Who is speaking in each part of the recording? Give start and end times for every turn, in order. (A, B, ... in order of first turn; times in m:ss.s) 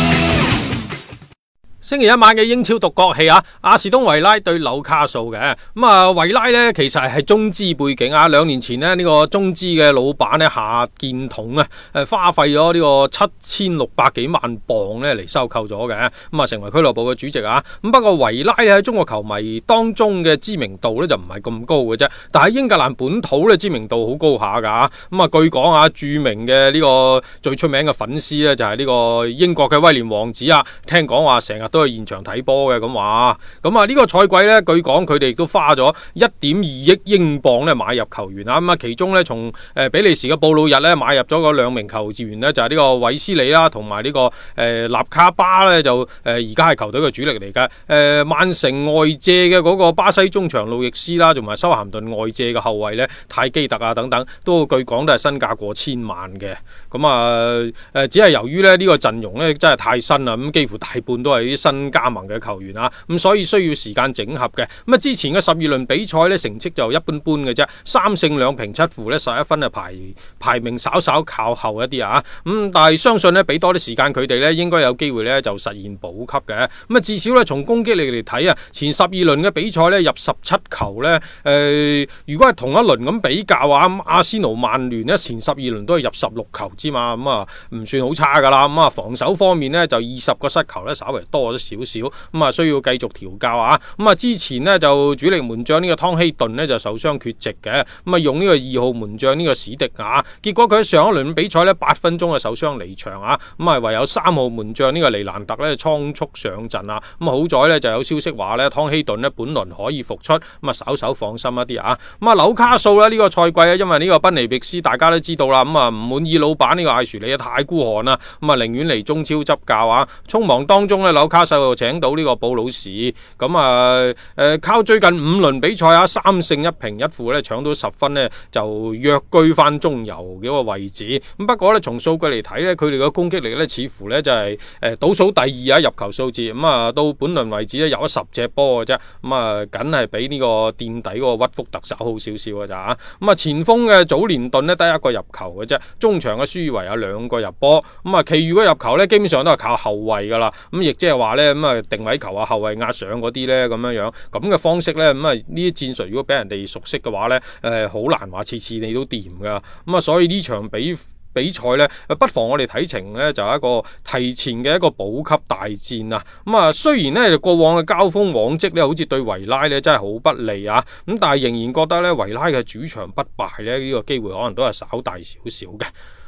0:01.8-2:55.9 A